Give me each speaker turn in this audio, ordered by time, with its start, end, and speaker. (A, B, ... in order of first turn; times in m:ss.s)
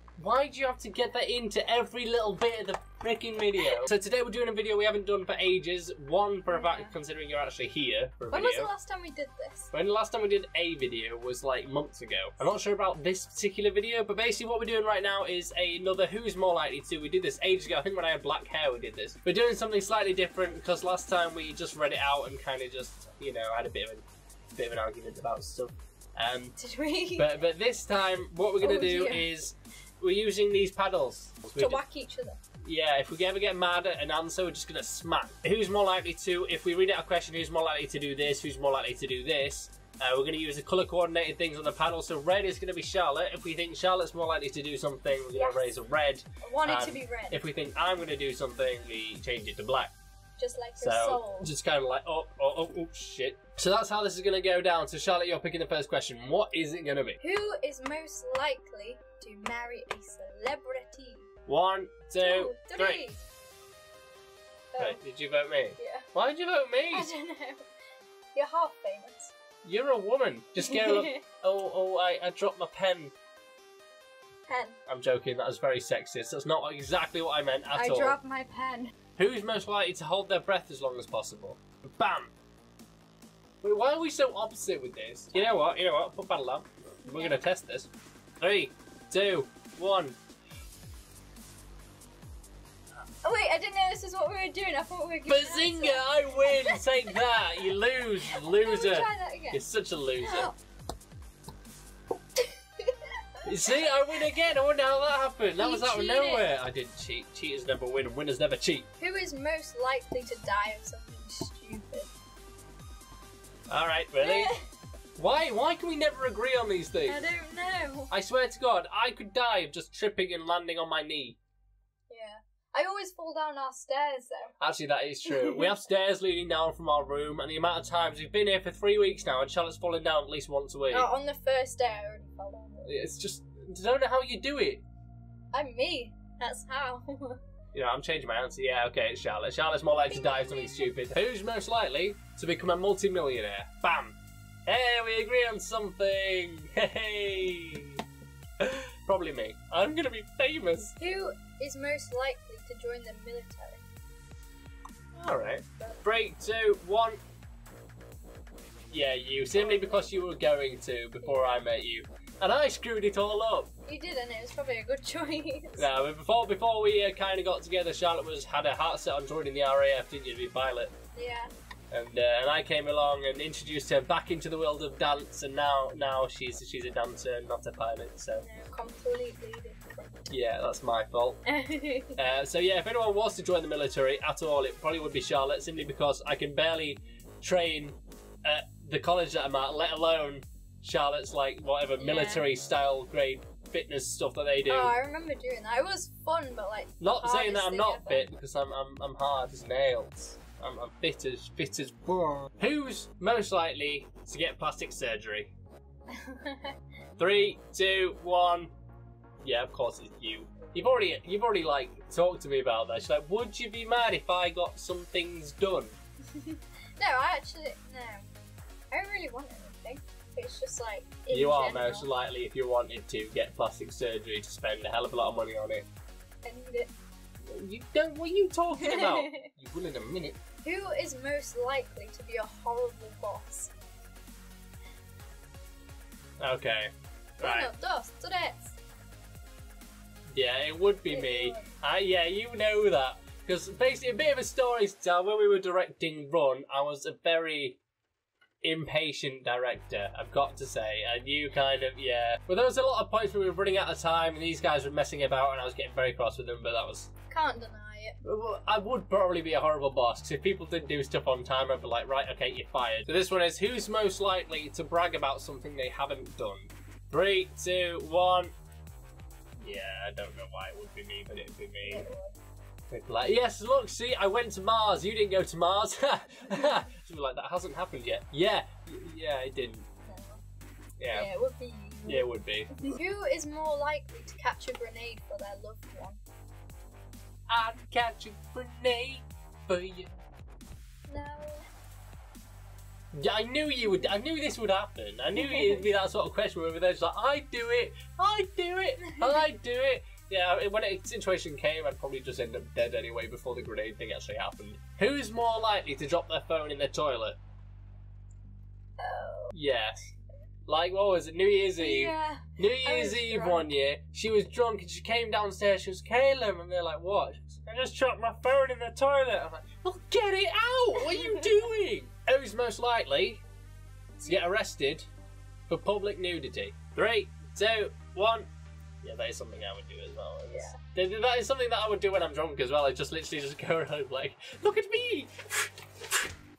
0:00.2-0:08.7 A
0:06.5-0:06.9 B
0:08.3-0:09.7 B
0:09.7-0:26.5 A
0:26.6-0:27.3 B
0:27.2-0:31.8 A
0:28.6-0:29.3 B
0:31.6-0:32.4 B
0:32.6-0:49.9 A
0:45.3-0:45.8 B
0:46.4-0:47.4 B
0:50.4-0:51.5 B
0:50.8-0:57.2 A
0:57.2-1:01.3 B
1:01.4-1:03.0 A
1:02.2-1:03.2 B
1:04.7-1:05.0 B
1:04.8-1:07.1 A
1:05.8-1:06.0 B
1:06.9-1:07.7 B
1:08.3-1:09.3 B
1:09.6-1:13.1 A
1:10.6-1:11.2 B
1:14.5-1:14.8 B
1:14.9-1:18.2 A
1:17.7-1:18.9 B
1:19.2-1:22.3 A
1:23.6-1:27.9 A
1:27.0-1:27.4 B
1:28.4-1:30.2 A
1:33.2-1:36.8 B
1:35.3-1:40.5 A
1:38.3-1:39.6 B
1:40.2-1:40.6 B
1:42.4-1:44.1 B
1:43.4-1:48.8 A
1:45.6-1:46.5 B
1:49.0-1:52.1 B
1:53.7-1:54.5 A
1:54.2-1:54.6 B
1:55.2-1:57.3 A
1:57.1-1:58.1 B
1:58.1-2:01.4 A
2:02.1-2:04.5 B
2:04.6-2:11.1 A
2:05.2-2:05.7 B
2:10.9-2:12.9 B
2:12.8-2:14.8 A
2:15.5-2:17.4 B
2:17.7-2:28.0 A
2:20.1-2:20.9 B
2:28.6-2:31.0 A
2:31.0-2:33.9 B
2:35.2-2:37.2 A
2:38.9-2:43.7 A
2:39.5-2:40.1 B
2:41.2-2:41.6 B
2:43.8-2:45.9 B
2:45.8-2:50.9 A
2:51.1-2:51.5 B
2:51.9-2:58.4 A
2:58.4-3:00.3 B
3:00.3-3:01.4 A
3:01.4-3:02.2 B
3:02.2-3:14.9 A
3:12.0-3:12.5 B
3:14.7-3:18.3 B
3:17.0-3:25.5 A
3:26.2-3:26.7 B
3:27.2-3:28.7 A
3:29.4-3:36.0 A
3:36.3-3:38.3 B
3:38.9-3:42.1 B
3:41.3-3:45.9 A
3:46.4-3:46.9 B
3:47.4-3:50.4 A
3:48.8-3:49.4 B
3:50.6-3:53.7 B
3:56.4-3:56.9 A
3:57.4-3:58.8 B
3:57.4-3:57.7 A
4:00.3-4:07.8 A
4:01.1-4:01.7 B
4:08.6-4:17.1 A
4:17.3-4:18.2 B
4:18.2-4:28.5 A
4:29.6-4:32.1 A
4:31.8-4:32.4 B
4:32.9-4:39.9 A
4:40.0-4:40.4 B
4:41.0-4:41.3 A
4:41.1-4:42.3 B
4:42.0-4:42.8 A
4:42.8-4:46.2 B
4:47.5-4:50.2 A
4:51.1-4:51.6 B
4:53.1-5:07.4 A
4:55.4-4:55.8 B
5:09.0-5:09.5 B
5:09.5-5:10.0 A
5:10.7-5:23.4 A
5:11.8-5:13.6 B
5:20.9-5:21.6 B
5:24.2-5:25.1 A
5:25.7-5:28.5 A
5:29.0-5:36.2 A
5:30.5-5:30.8 B